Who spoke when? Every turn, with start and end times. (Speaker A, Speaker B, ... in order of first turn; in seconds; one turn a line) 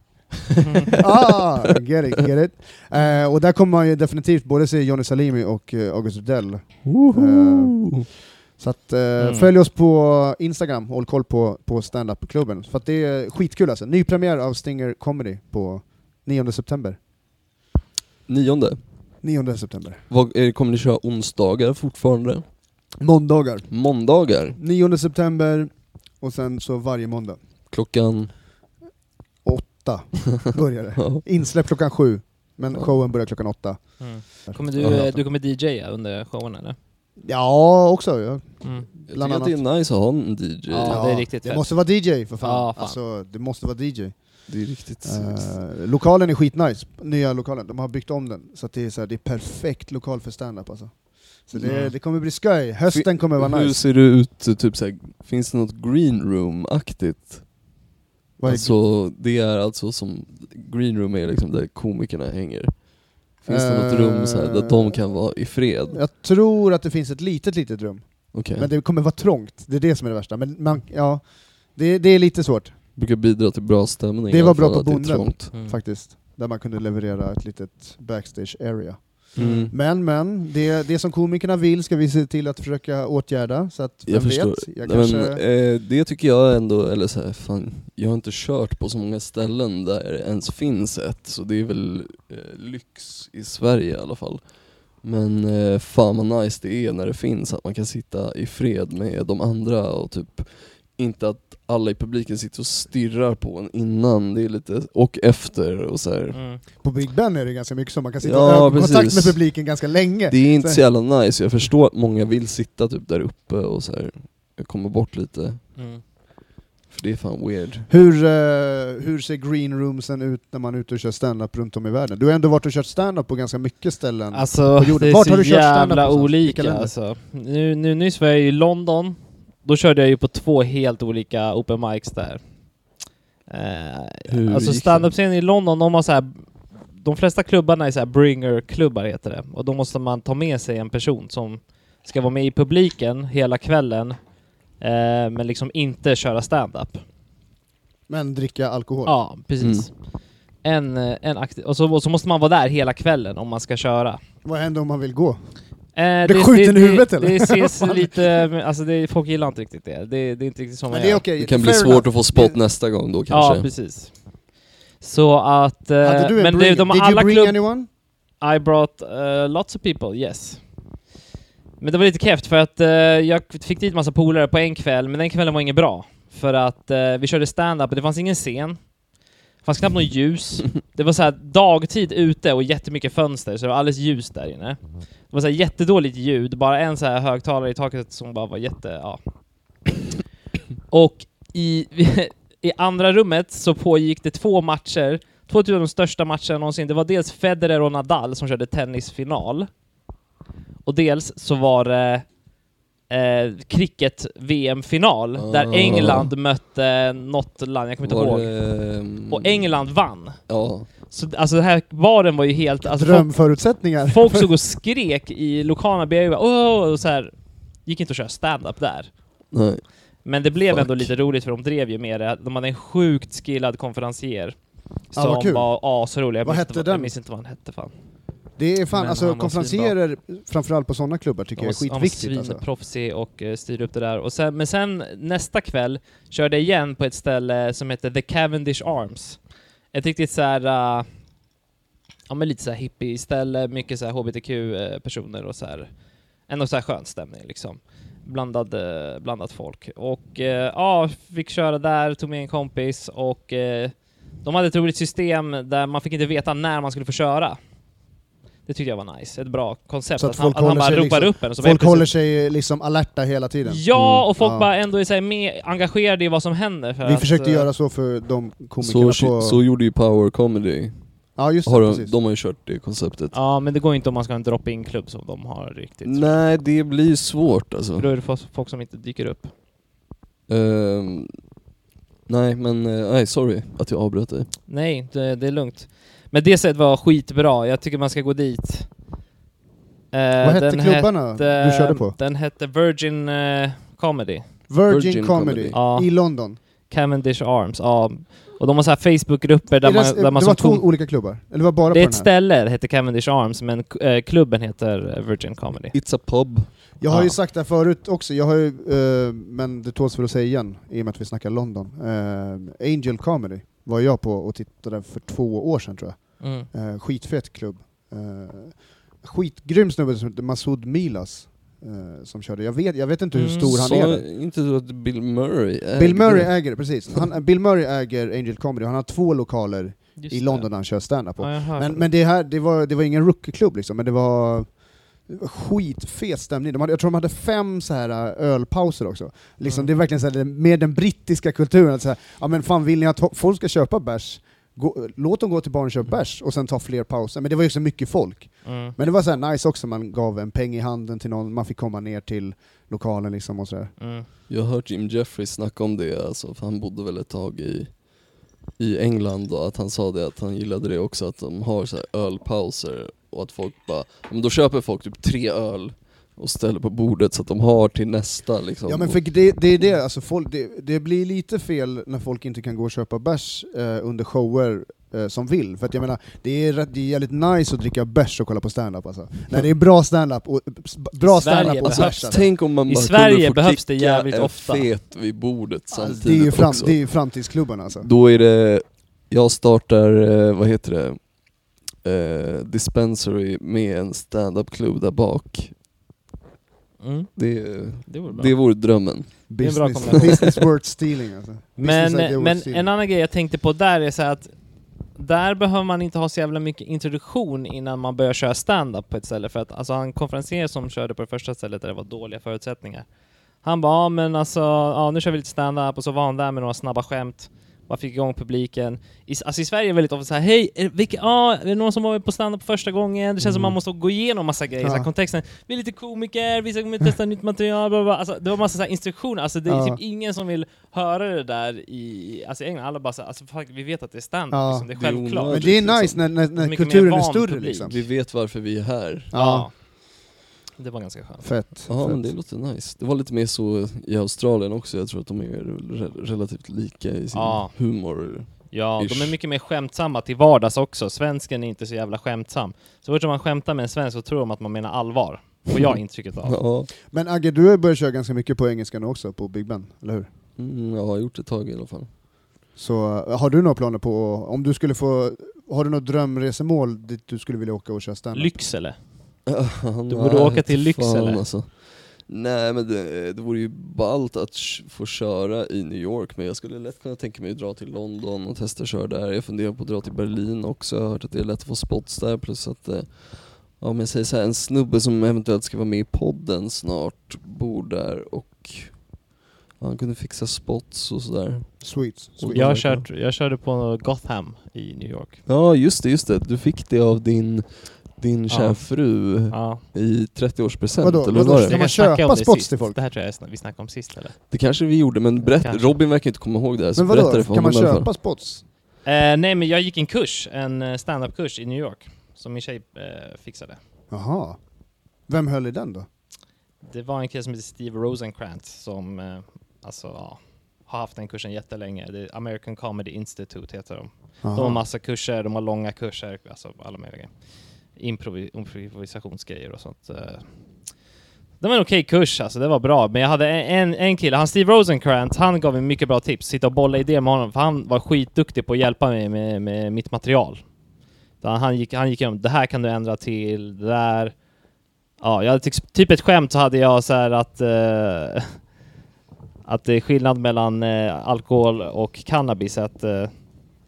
Speaker A: 0.5-1.3
Speaker B: 1.0-8.0
Speaker A: 6.8-8.1
Speaker B: 8.6-17.0
Speaker C: 9.2-9.5
Speaker A: 18.3-18.8
Speaker B: 19.2-20.0
Speaker A: 20.1-22.4
Speaker B: 23.0-23.7
Speaker A: 23.7-24.6
Speaker B: 24.6-27.4
Speaker A: 27.7-28.3
Speaker B: 29.4-35.1
Speaker A: 31.0-31.2
Speaker C: 34.0-36.8
Speaker A: 34.8-35.1
Speaker B: 37.2-39.6
Speaker A: 39.1-41.0
Speaker B: 40.7-44.4
Speaker C: 40.8-41.7
Speaker C: 42.4-43.0
Speaker A: 44.5-45.5
Speaker B: 45.0-53.8
Speaker A: 51.5-51.8
Speaker C: 51.6-51.9
Speaker A: 52.9-57.5
Speaker B: 58.4-58.7
Speaker A: 58.5-62.8
Speaker A: 63.4-66.0
Speaker B: 63.5-65.0
Speaker B: 65.9-72.8
Speaker A: 68.3-68.7
Speaker A: 73.0-75.5
Speaker B: 74.3-85.4
Speaker C: 75.5-75.8
Speaker A: 79.3-79.7
Speaker C: 79.4-79.7
Speaker A: 84.1-94.4
Speaker A: 95.0-106.4
Speaker C: 106.3-106.6
Speaker B: 106.8-110.8
Speaker A: 108.2-109.5
Speaker A: 110.3-115.6
Speaker C: 115.8-116.0
Speaker A: 116.9-117.9
Speaker B: 117.9-126.9
Speaker C: 124.3-132.4
Speaker C: 133.5-136.4
Speaker A: 134.3-135.1
Speaker C: 136.9-144.2
Speaker C: 144.8-147.0
Speaker B: 148.1-149.2
Speaker C: 149.1-149.9
Speaker A: 149.6-149.9
Speaker C: 150.6-154.2
Speaker B: 154.4-155.4
Speaker C: 155.9-161.2
Speaker B: 156.2-158.2
Speaker B: 160.9-162.6
Speaker A: 161.4-163.7
Speaker C: 163.3-164.1
Speaker C: 165.0-167.6
Speaker B: 166.0-167.9
Speaker C: 168.4-170.6
Speaker C: 171.8-178.9
Speaker C: 179.6-189.2
Speaker C: 190.9-199.7
Speaker C: 200.8-202.2
Speaker C: 203.1-210.4
Speaker A: 205.3-206.3
Speaker A: 208.0-209.7
Speaker A: 210.5-210.9
Speaker C: 211.1-213.3
Speaker B: 212.8-214.5
Speaker C: 214.0-217.3
Speaker C: 217.8-219.1
Speaker A: 219.5-219.8
Speaker C: 220.2-224.6
Speaker A: 220.7-221.1
Speaker C: 225.1-227.9
Speaker B: 225.1-225.7
Speaker B: 226.4-227.1
Speaker B: 228.6-232.6
Speaker C: 228.9-229.9
Speaker C: 231.6-239.4
Speaker C: 239.9-241.1
Speaker C: 242.3-245.9
Speaker C: 246.5-257.6
Speaker C: 258.6-262.1
Speaker B: 260.2-263.8
Speaker C: 263.6-267.7
Speaker A: 263.9-264.2
Speaker B: 264.4-264.7
Speaker B: 267.0-269.6
Speaker A: 268.8-271.0
Speaker B: 271.4-272.1
Speaker A: 271.6-273.3
Speaker C: 273.3-276.3
Speaker A: 276.0-278.1
Speaker C: 278.0-279.5
Speaker A: 280.5-281.3
Speaker A: 282.3-284.5
Speaker C: 284.7-288.9
Speaker C: 290.1-294.4
Speaker B: 290.4-292.1
Speaker B: 294.7-296.6
Speaker A: 294.9-295.8
Speaker C: 295.7-296.1
Speaker C: 296.9-300.8
Speaker B: 299.8-302.3
Speaker C: 301.9-305.9
Speaker A: 305.9-306.7
Speaker B: 307.0-324.2
Speaker C: 316.4-316.7
Speaker C: 323.3-323.7
Speaker A: 323.6-327.2
Speaker B: 325.9-334.7
Speaker C: 330.2-330.7
Speaker C: 331.4-332.0
Speaker B: 335.3-353.9
Speaker C: 348.6-348.9
Speaker C: 354.0-354.3
Speaker A: 354.5-358.0
Speaker A: 358.8-369.2
Speaker B: 368.9-382.4
Speaker C: 381.2-384.9
Speaker A: 381.7-387.0
Speaker B: 385.9-388.1
Speaker A: 388.0-391.3
Speaker A: 392.0-395.7
Speaker C: 397.0-398.5
Speaker A: 397.4-399.4
Speaker B: 399.5-402.9
Speaker C: 399.6-400.6
Speaker C: 401.8-404.5
Speaker C: 405.1-413.1
Speaker C: 413.6-435.7
Speaker B: 424.8-425.1
Speaker B: 429.7-430.0
Speaker B: 434.5-434.9
Speaker A: 434.9-436.2
Speaker B: 435.5-438.0
Speaker C: 436.5-437.9
Speaker A: 437.8-439.3
Speaker B: 439.3-439.7
Speaker C: 439.3-439.7
Speaker C: 440.8-441.4
Speaker B: 441.4-442.3
Speaker A: 441.9-449.4
Speaker C: 447.3-447.8
Speaker C: 448.7-456.6
Speaker A: 455.7-456.9
Speaker B: 457.1-460.3
Speaker A: 460.6-462.1
Speaker B: 462.8-468.5
Speaker C: 468.3-468.9
Speaker A: 469.5-489.0
Speaker C: 470.1-471.4
Speaker A: 489.8-491.9
Speaker B: 491.8-492.8
Speaker A: 492.4-493.1
Speaker C: 492.5-495.4
Speaker A: 495.5-501.8
Speaker C: 498.5-499.8
Speaker B: 501.0-502.9
Speaker C: 501.3-504.4
Speaker A: 504.5-508.1
Speaker C: 505.6-505.9
Speaker B: 506.9-508.6
Speaker C: 509.0-513.8
Speaker B: 514.1-514.6
Speaker B: 515.3-516.0
Speaker C: 516.8-527.3
Speaker B: 524.4-524.8
Speaker C: 528.0-530.4
Speaker C: 531.6-540.6
Speaker C: 541.4-544.3
Speaker C: 545.2-548.5
Speaker C: 549.6-553.3